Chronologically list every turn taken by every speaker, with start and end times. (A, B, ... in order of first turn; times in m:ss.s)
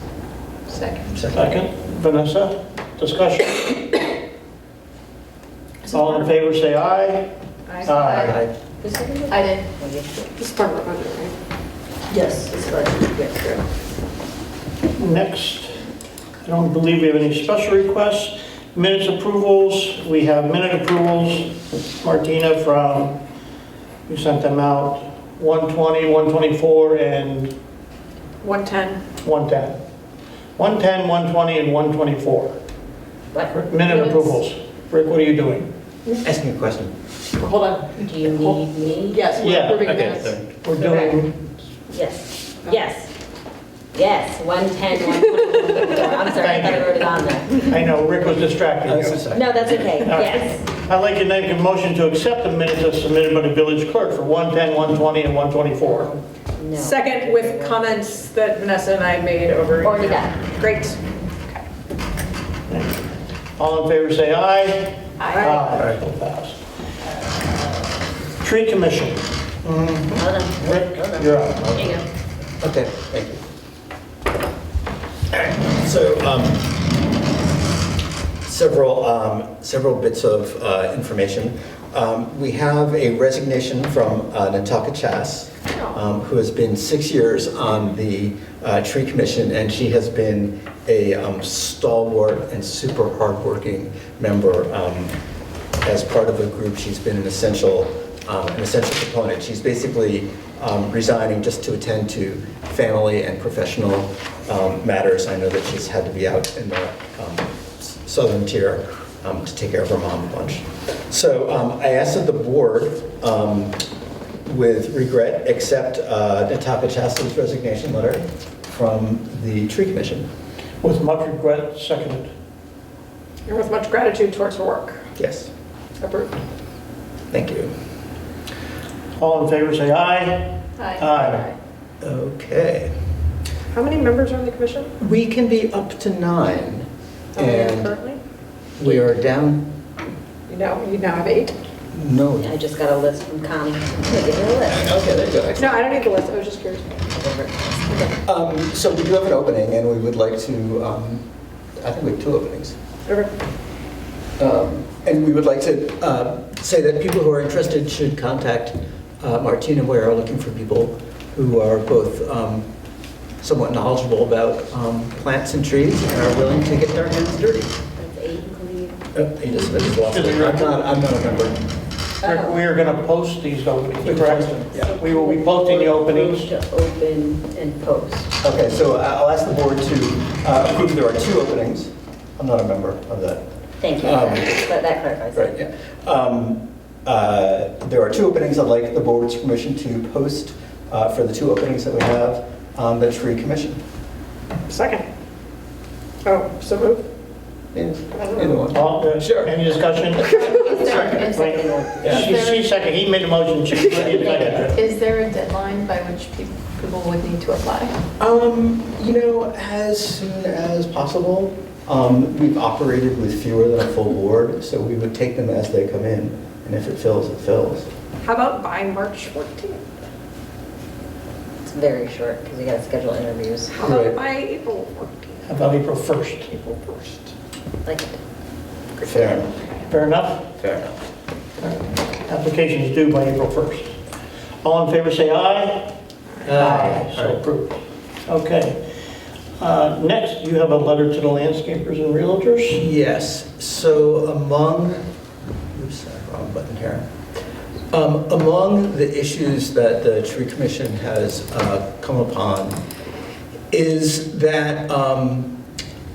0:00.7-0:01.1 A
0:01.1-0:01.5 B
0:01.3-0:04.0 C
0:05.9-0:07.3 C
0:05.9-0:06.2 D
0:07.7-0:08.2 A
0:07.8-0:08.4 C
0:07.9-0:08.3 D
0:08.2-0:10.1 E
0:09.3-0:09.6 D
0:10.2-0:11.4 A
0:12.1-0:13.4 E
0:13.3-0:13.6 A
0:15.0-0:15.8 C
0:16.4-0:23.2 C
0:24.1-0:27.5 C
0:28.4-0:29.0 A
0:29.2-0:29.8 C
0:30.6-0:32.6 C
0:33.5-0:35.7 C
0:33.9-0:34.2 A
0:36.2-0:36.9 B
0:37.4-0:40.4 A
0:38.0-0:39.3 E
0:39.4-0:41.4 C
0:39.7-0:40.4 B
0:40.8-0:41.1 E
0:41.9-0:43.1 E
0:43.9-0:47.7 E
0:46.2-0:49.3 C
0:48.9-0:50.1 B
0:49.3-0:50.6 E
0:49.9-0:56.1 C
0:55.8-0:58.2 E
0:56.7-1:01.6 A
0:59.8-1:00.3 E
1:02.7-1:06.6 C
1:05.2-1:05.8 A
1:08.4-1:12.0 C
1:09.6-1:10.2 B
1:10.2-1:12.0 E
1:12.6-1:13.4 B
1:15.3-1:16.8 B
1:18.4-1:35.2 B
1:35.8-1:53.8 B
1:54.4-2:00.3 B
2:00.8-2:02.3 C
2:03.4-2:05.1 A
2:05.2-2:05.5 B
2:06.0-2:06.3 A
2:07.3-2:07.7 B
2:09.2-2:11.5 C
2:10.8-2:11.0 D
2:12.0-2:12.9 B
2:13.7-2:14.9 A
2:15.0-2:18.0 B
2:17.3-2:18.2 A
2:18.8-2:19.7 B
2:18.8-2:19.1 E
2:20.5-2:21.5 A
2:21.9-2:22.5 B
2:22.4-2:24.9 E
2:24.6-2:25.9 B
2:25.6-2:26.9 A
2:27.1-2:28.1 E
2:28.2-2:32.8 B
2:33.0-2:33.3 A
2:34.4-2:42.7 B
2:43.4-2:47.8 B
2:48.0-2:49.0 E
2:49.1-2:51.6 B
2:50.0-2:50.8 C
2:52.2-2:52.7 E
2:52.2-2:56.5 C
2:54.0-2:54.9 B
2:54.4-2:58.4 E
2:58.4-3:03.4 B
3:03.8-3:05.5 E
3:04.0-3:04.7 B
3:05.3-3:13.8 B
3:14.7-3:15.0 A
3:16.2-3:17.0 A
3:17.7-3:19.5 B
3:18.1-3:18.7 A
3:18.7-3:20.3 C
3:20.2-3:22.7 D
3:20.3-3:21.0 A
3:21.2-3:22.3 E
3:21.3-3:24.8 C
3:22.0-3:22.3 B
3:24.0-3:28.0 D
3:28.2-3:37.9 B
3:38.2-3:39.8 A
3:41.6-3:43.7 E
3:43.7-3:45.6 A
3:43.8-3:44.2 B
3:45.4-3:46.5 C
3:46.4-3:47.3 A
3:47.8-3:48.2 E
3:49.0-3:49.5 B
3:49.9-3:50.5 C
3:50.6-3:51.0 B
3:51.6-3:54.0 C
3:54.6-3:55.9 C
3:56.4-3:56.6 A
3:56.4-3:57.4 B
3:56.6-3:58.8 C
3:59.6-4:02.8 C
4:02.7-4:05.1 B
4:05.7-4:07.1 B
4:07.9-4:12.8 B
4:13.7-4:15.6 B